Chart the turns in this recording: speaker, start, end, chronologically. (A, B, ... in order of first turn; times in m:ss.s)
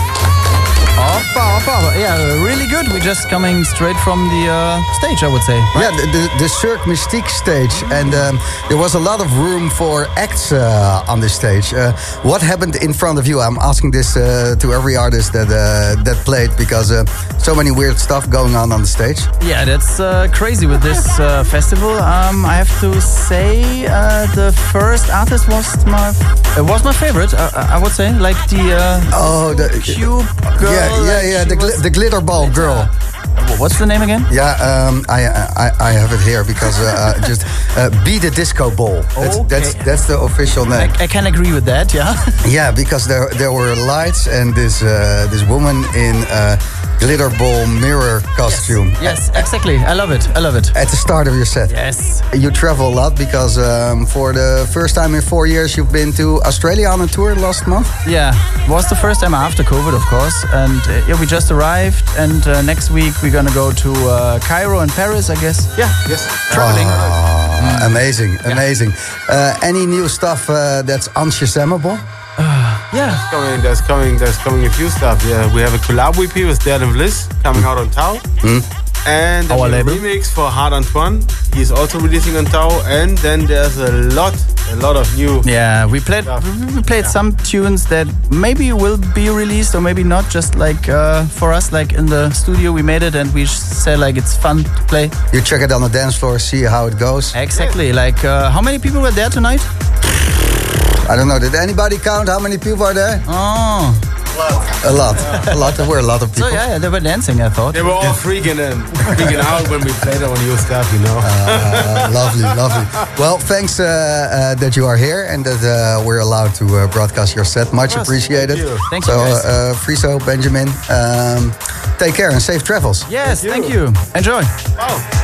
0:01.0-0:05.8 A
0:05.7-0:19.3 B
0:19.4-0:34.3 A
0:29.1-0:32.9 B
0:34.3-0:41.0 B
0:39.2-0:39.8 A
0:40.8-0:42.3 A
0:42.4-0:49.3 B
0:48.5-0:50.7 A
0:50.7-0:51.8 B
0:51.7-0:52.2 A
0:52.3-0:57.9 B
0:58.0-1:05.7 A
1:05.7-1:07.2 C
1:06.5-1:12.0 B
1:06.6-1:06.9 A
1:07.6-1:08.6 A
1:12.4-1:13.2 A
1:13.2-1:18.2 C
1:19.0-1:25.5 C
1:19.5-1:20.0 A
1:25.4-1:35.1 A
1:35.3-1:37.4 B
1:37.3-1:39.7 A
1:41.0-1:43.2 B
1:43.3-1:44.0 A
1:44.6-1:46.6 B
1:46.4-1:47.9 A
1:47.7-1:52.5 C
1:51.2-2:03.1 B
1:57.9-1:58.8 C
1:58.9-1:59.5 A
2:03.0-2:04.5 A
2:03.4-2:03.7 C
2:04.8-2:05.0 C